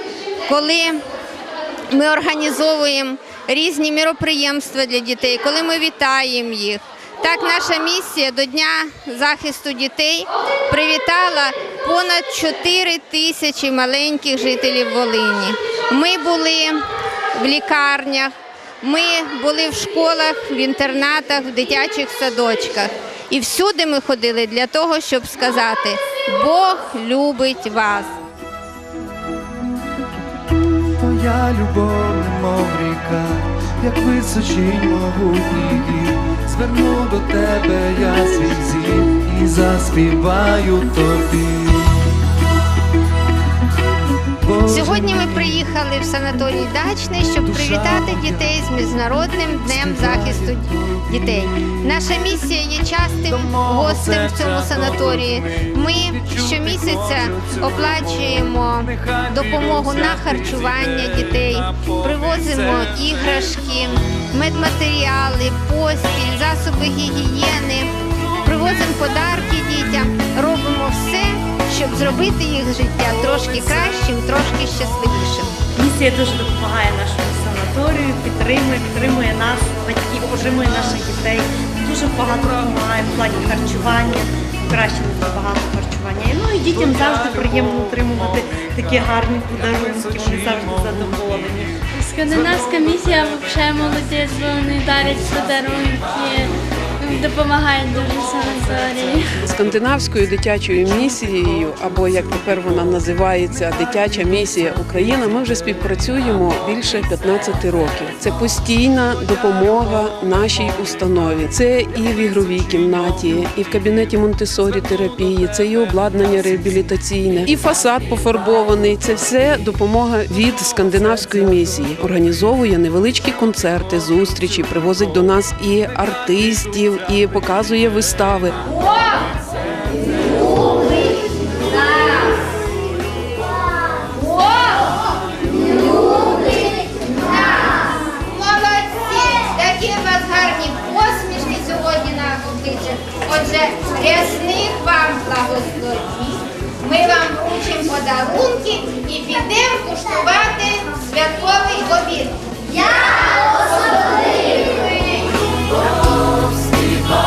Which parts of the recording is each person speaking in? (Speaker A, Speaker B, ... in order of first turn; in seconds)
Speaker A: 0.4-1.1, 1.9-28.1, 44.6-67.9, 68.5-75.5, 130.3-130.9, 131.6-132.4, 134.1-135.0, 135.5-152.9
Speaker B: 31.0-41.9, 44.4-45.6, 47.4-48.7, 49.4-51.4, 53.3-63.5, 89.6-91.2
Speaker C: 75.7-91.7
Speaker D: 92.0-99.4
Speaker E: 99.5-128.6